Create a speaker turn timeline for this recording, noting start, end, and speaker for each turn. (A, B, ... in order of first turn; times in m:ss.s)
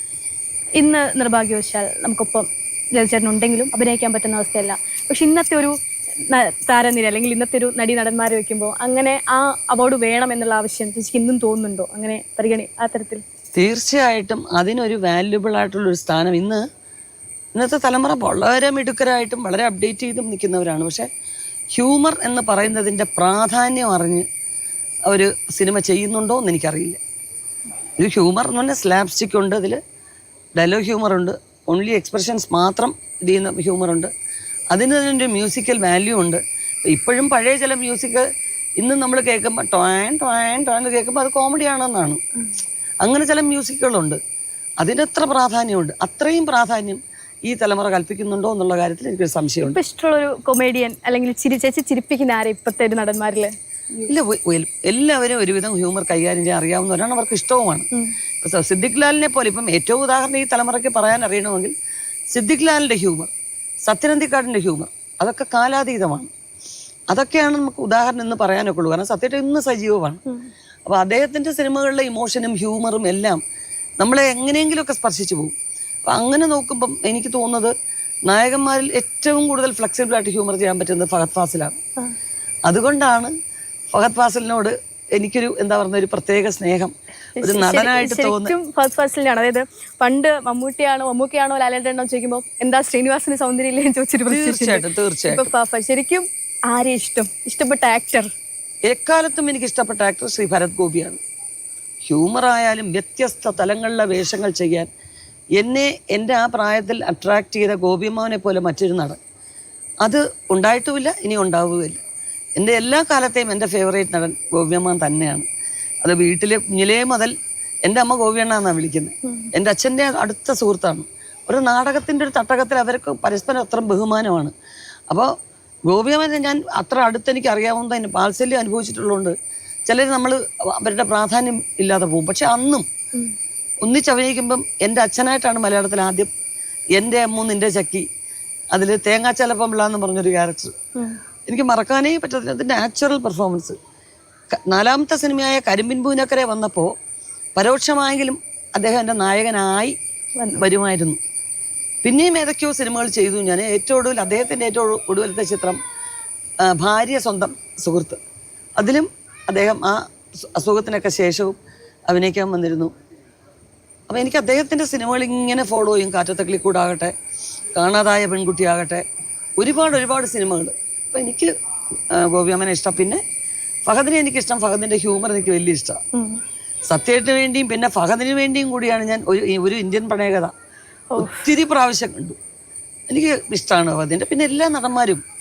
0:00.8-0:13.2 A
0:13.5-0:16.6 B
0:17.5-0:21.1 B
0:21.7-0:24.2 B
0:25.0-0:27.0 B
0:28.0-0:29.8 B
0:30.5-0:34.1 B
0:34.7-0:38.2 B
0:38.8-0:42.2 B
0:43.0-0:44.2 B
0:44.8-0:49.8 B
0:49.7-0:54.1 A
0:54.1-0:57.9 B
0:58.4-1:01.7 B
1:02.3-1:03.3 B
1:03.8-1:06.3 B
1:07.1-1:10.2 B
1:10.8-1:13.4 B
1:14.0-1:15.5 B
1:16.0-1:17.7 B
1:18.2-1:21.8 B
1:22.6-1:23.3 B
1:23.9-1:28.5 B
1:27.4-1:38.3 A
1:34.3-1:35.5 B
1:38.9-1:41.2 B
1:42.1-1:44.9 B
1:45.6-1:49.2 B
1:50.0-1:52.0 B
1:52.6-1:55.4 B
1:56.0-1:57.3 B
1:57.8-2:04.5 B
2:05.9-2:09.3 B
2:09.9-2:12.8 B
2:13.8-2:16.3 B
2:16.9-2:18.1 B
2:18.7-2:20.7 B
2:21.4-2:23.8 B
2:24.5-2:26.9 B
2:27.6-2:30.0 B
2:30.4-2:30.6 A
2:30.6-2:31.2 B
2:32.0-2:35.8 B
2:36.6-2:38.2 B
2:38.8-2:41.6 B
2:42.1-2:42.9 B
2:44.1-2:47.1 B
2:47.8-2:49.0 B
2:49.6-2:51.5 B
2:52.1-2:53.2 B
2:53.9-2:56.0 B
2:56.1-2:56.4 A
2:56.9-3:00.5 B
3:01.1-3:01.4 A
3:01.2-3:02.4 B
3:03.1-3:05.2 B